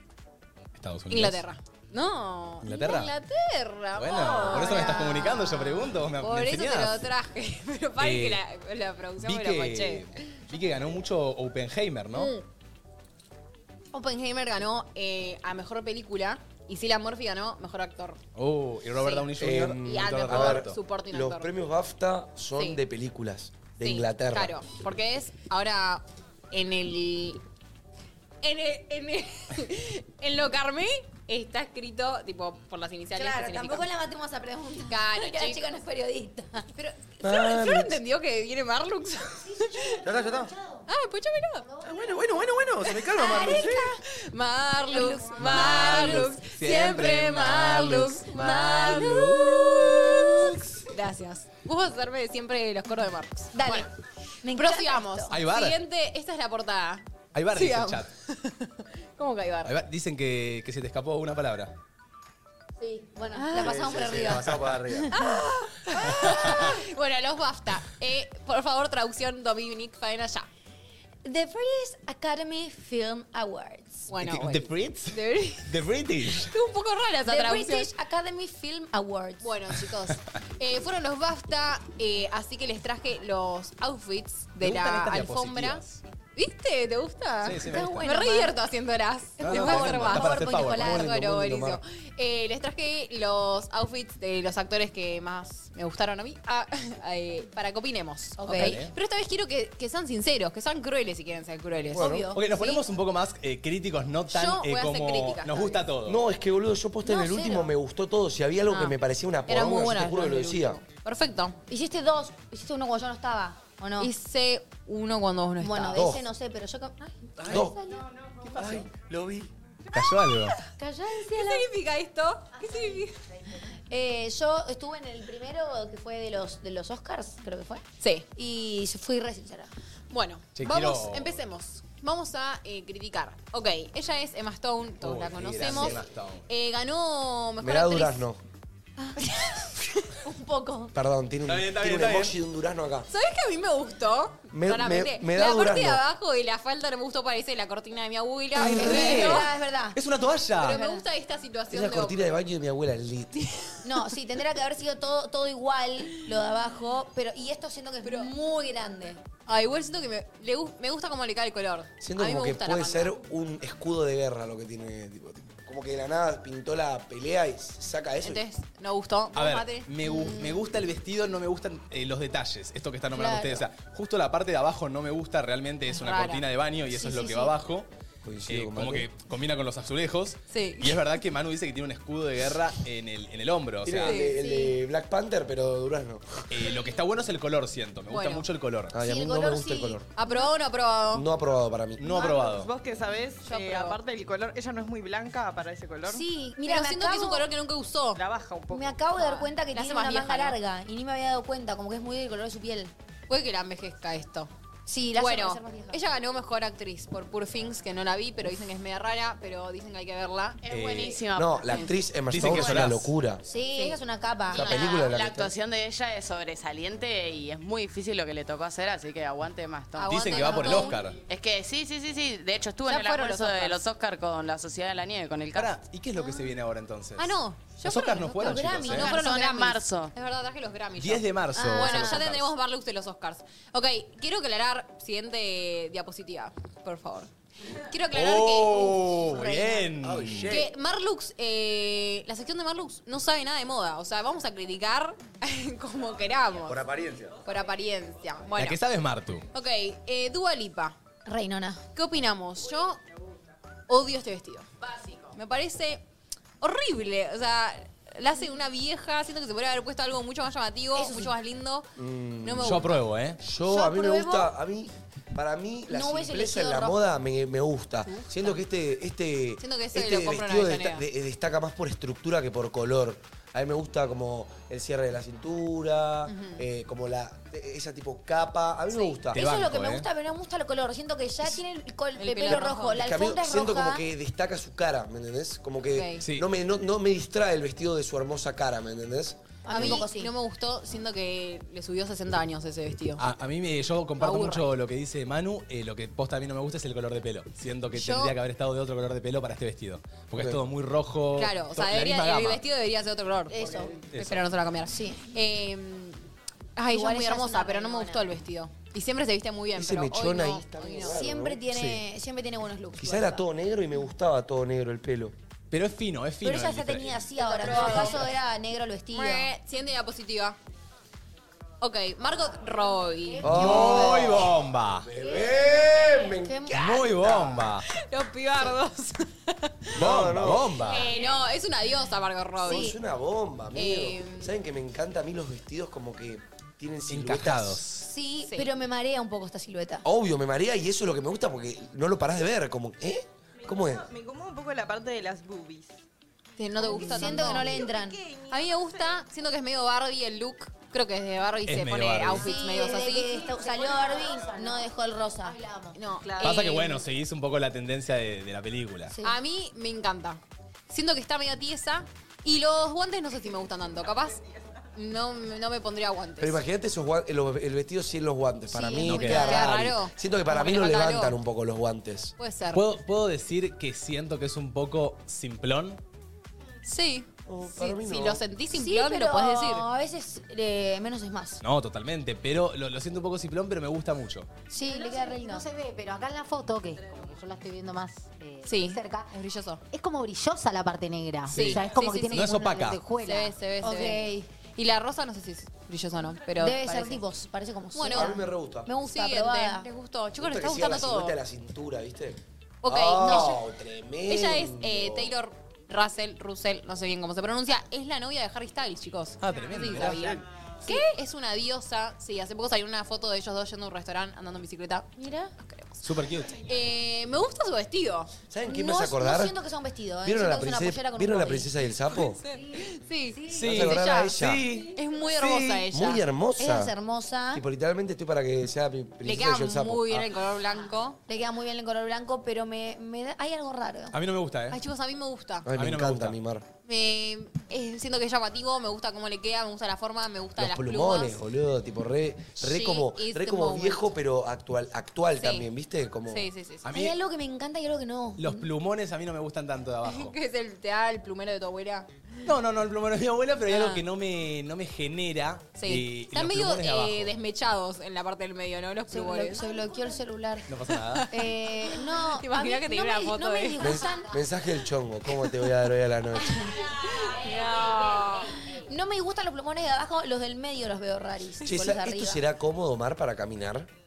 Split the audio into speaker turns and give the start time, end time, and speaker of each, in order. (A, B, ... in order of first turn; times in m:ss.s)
0:00.8-0:01.4 A
0:01.1-0:10.3 B
0:02.6-0:03.1 A
0:03.9-0:07.0 A
0:08.0-0:08.4 A
0:09.2-0:12.4 A
0:12.1-0:12.4 B
0:13.9-0:18.2 B
0:18.4-0:20.8 A
0:19.0-0:19.3 B
0:19.4-0:24.6 C
0:19.8-0:21.5 B
0:23.8-0:27.4 B
0:28.4-0:33.9 B
0:33.2-0:36.6 D
0:34.9-0:35.6 B
0:36.8-0:40.0 B
0:37.2-0:38.0 C
0:40.0-0:40.6 E
0:40.9-0:41.7 B
0:41.8-0:43.8 A
0:42.0-0:42.4 E
0:43.1-0:43.9 D
0:43.2-0:53.9 B
0:44.9-0:46.4 D
0:45.4-0:50.8 A
0:48.3-0:49.7 D
0:53.5-0:53.9 D
0:54.4-0:55.3 D
0:54.5-0:59.7 B
0:55.3-0:55.8 A
0:57.3-0:58.1 A
0:59.6-1:01.7 A
1:02.8-1:04.7 D
1:03.4-1:03.8 B
1:03.5-1:05.1 E
1:03.7-1:04.7 C
1:05.1-1:10.5 B
1:11.2-1:14.1 D
1:14.1-1:15.7 B
1:14.2-1:16.5 A
1:16.3-1:17.9 B
1:17.3-1:19.5 D
1:19.4-1:25.8 B
1:24.6-1:26.0 A
1:26.4-1:42.2 B
1:27.4-1:28.0 A
1:27.6-1:28.6 D
1:29.4-1:31.1 D
1:29.4-1:31.1 A
1:30.7-1:31.8 C
1:38.4-1:38.8 D
1:38.5-1:38.9 A
1:41.9-1:42.8 D
1:41.9-1:42.3 C
1:42.3-1:46.2 A
1:44.3-1:45.8 B
1:46.1-1:50.8 C
1:47.0-1:47.7 D
1:49.5-1:51.6 B
1:51.7-1:54.1 D
1:54.0-1:56.1 B
1:55.6-1:58.9 D
1:55.9-1:56.2 C
1:57.5-1:57.8 C
1:58.6-1:59.5 E
1:59.9-2:00.6 A
2:00.0-2:00.3 B
2:00.8-2:01.7 D
2:01.3-2:03.2 B
2:03.9-2:07.8 D
2:08.0-2:08.3 B
2:08.4-2:09.7 D
2:10.1-2:18.2 B
2:10.6-2:11.4 A
2:15.0-2:16.4 A
2:15.6-2:16.0 C
2:17.6-2:18.4 C
2:19.0-2:19.7 B
2:19.2-2:19.7 D
2:20.2-2:20.9 D
2:20.9-2:23.1 C
2:21.5-2:22.4 A
2:23.1-2:29.5 B
2:24.5-2:26.0 C
2:28.6-2:30.0 D
2:28.6-2:30.9 A
2:30.6-2:32.4 B
2:31.7-2:33.4 C
2:33.8-2:39.2 D
2:38.0-2:38.3 B
2:39.5-2:43.1 B
2:42.0-2:48.4 C
2:48.2-2:50.6 B
2:49.3-2:57.9 A
2:53.1-2:53.6 D
2:55.9-2:56.4 B
2:56.9-2:57.5 D
2:58.2-2:59.1 C
2:58.5-3:04.2 A
3:00.5-3:01.0 B
3:03.8-3:06.4 C
3:04.0-3:04.4 B
3:04.2-3:04.8 D
3:06.5-3:08.9 A
3:08.1-3:08.4 B
3:08.9-3:10.0 C
3:08.9-3:10.0 D
3:10.2-3:11.3 B
3:11.1-3:12.1 C
3:12.0-3:12.7 A
3:12.0-3:16.2 F
3:13.4-3:14.0 B
3:16.1-3:17.4 D
3:16.6-3:18.2 B
3:18.2-3:19.2 F
3:18.7-3:22.9 D
3:19.2-3:20.6 B
3:23.3-3:24.5 B
3:24.9-3:26.0 D
3:25.1-3:30.6 B
3:30.6-3:32.1 G
3:30.6-3:31.2 A
3:31.3-3:33.4 C
3:32.3-3:33.1 A
3:33.4-3:35.0 D
3:34.5-3:35.5 C
3:34.5-3:40.7 G
3:40.0-3:41.0 B
3:40.0-3:41.2 A
3:40.5-3:40.8 D
3:41.3-3:45.8 G
3:42.8-3:43.8 B
3:45.5-3:49.1 A
3:46.2-3:46.5 D
3:47.2-3:59.2 B
3:48.4-3:49.4 D
3:49.1-3:50.1 G
3:51.0-3:52.5 A
3:51.6-3:52.2 D
3:58.1-4:00.6 A
3:59.2-3:59.9 D
4:00.0-4:00.7 E
4:00.5-4:06.8 B
4:06.6-4:07.4 E
4:07.4-4:08.8 B
4:08.6-4:09.4 A
4:09.5-4:11.0 B
4:11.3-4:11.8 D
4:11.9-4:13.0 B
4:13.9-4:14.7 B
4:14.8-4:15.3 G
4:15.3-4:16.0 B
4:16.6-4:21.9 B
4:20.9-4:21.4 D
4:22.0-4:39.4 C
4:22.4-4:23.0 B
4:22.6-4:23.4 A
4:23.6-4:24.5 D
4:25.9-4:27.0 D
4:28.0-4:28.3 B
4:29.6-4:31.0 B
4:36.3-4:36.6 B
4:39.0-4:44.0 D
4:39.3-4:40.1 A
4:42.2-4:43.0 B
4:42.4-4:49.4 C
4:45.9-4:46.2 B
4:49.6-4:50.3 D
4:49.7-4:53.2 B
4:53.2-5:02.6 A
4:54.2-4:54.7 B
4:57.9-4:58.3 B
5:00.3-5:00.6 C
5:01.4-5:03.6 B
5:03.5-5:04.0 D
5:04.1-5:06.2 B
5:04.1-5:04.4 A
5:04.9-5:05.2 D
5:06.8-5:11.2 B
5:06.9-5:08.3 D
5:09.8-5:11.6 C
5:11.0-5:13.4 D
5:11.7-5:12.0 A
5:13.0-5:15.4 C
5:15.7-5:18.2 A
5:16.4-5:19.5 D
5:17.4-5:18.2 B
5:19.1-5:20.6 B
5:21.8-5:23.5 B
5:23.4-5:24.6 D
5:23.4-5:27.7 C
5:23.4-5:25.1 A
5:25.2-5:25.5 D
5:26.3-5:27.0 D
5:26.7-5:27.9 A
5:28.0-5:29.9 B
5:29.9-5:31.1 C
5:29.9-5:31.1 A
5:30.9-5:32.9 B
5:32.6-5:33.0 D
5:32.6-5:37.8 C
5:33.7-5:34.6 B
5:37.1-5:38.1 A
5:38.0-5:40.0 D
5:40.0-5:44.1 C
5:43.6-5:46.0 F
5:46.6-5:47.7 B
5:46.8-5:48.2 D
5:46.8-5:49.2 F
5:48.5-5:53.4 B
5:51.7-5:52.5 A
5:52.4-5:55.6 D
5:53.3-5:56.7 H
5:55.9-5:57.0 B
5:56.4-5:59.1 A
5:59.1-5:59.4 D
5:59.2-6:04.4 B
6:04.9-6:06.6 B
6:06.4-6:12.4 C
6:08.7-6:09.7 D
6:09.0-6:09.6 A
6:09.3-6:11.4 B
6:12.4-6:12.8 B
6:12.7-6:16.0 A
6:16.8-6:19.9 B
6:17.4-6:18.4 C
6:18.7-6:21.6 D
6:21.6-6:24.5 A
6:24.7-6:25.7 D
6:24.8-6:29.3 H
6:28.6-6:29.8 B
6:29.9-6:33.6 H
6:31.4-6:33.0 A
6:31.5-6:32.5 B
6:33.2-6:37.2 B
6:33.8-6:34.5 D
6:36.6-6:39.9 D
6:37.9-6:41.4 B
6:38.0-6:38.9 C
6:40.4-6:45.4 C
6:42.8-6:43.6 B
6:43.2-6:43.6 D
6:44.3-6:58.3 B
6:49.4-6:50.4 A
6:55.2-6:55.5 D
6:56.0-6:56.6 A
6:58.5-6:59.6 C
6:58.6-7:01.7 D
7:00.2-7:02.4 C
7:02.2-7:04.4 B
7:02.6-7:02.9 H
7:03.5-7:04.8 A
7:03.5-7:06.9 C
7:04.9-7:06.2 B
7:06.6-7:07.6 D
7:07.5-7:10.3 C
7:09.2-7:11.2 B
7:11.3-7:14.2 D
7:14.1-7:14.8 A
7:14.7-7:15.7 B
7:15.6-7:16.6 C
7:15.8-7:16.4 A
7:16.8-7:21.4 B
7:20.6-7:26.5 C
7:22.6-7:24.1 B
7:25.4-7:25.7 B
7:26.3-7:26.9 B
7:26.8-7:27.2 A
7:26.9-7:28.7 D
7:28.4-7:30.4 A
7:30.0-7:32.1 B
7:32.4-7:37.3 A
7:33.7-7:34.0 B
7:35.8-7:39.6 B
7:39.1-7:40.7 D
7:40.7-7:41.3 A
7:41.1-7:41.5 B
7:41.3-7:44.4 D
7:42.2-7:43.9 B
7:43.8-7:46.8 C
7:46.5-7:52.4 D
7:46.8-7:48.6 B
7:51.6-7:53.9 C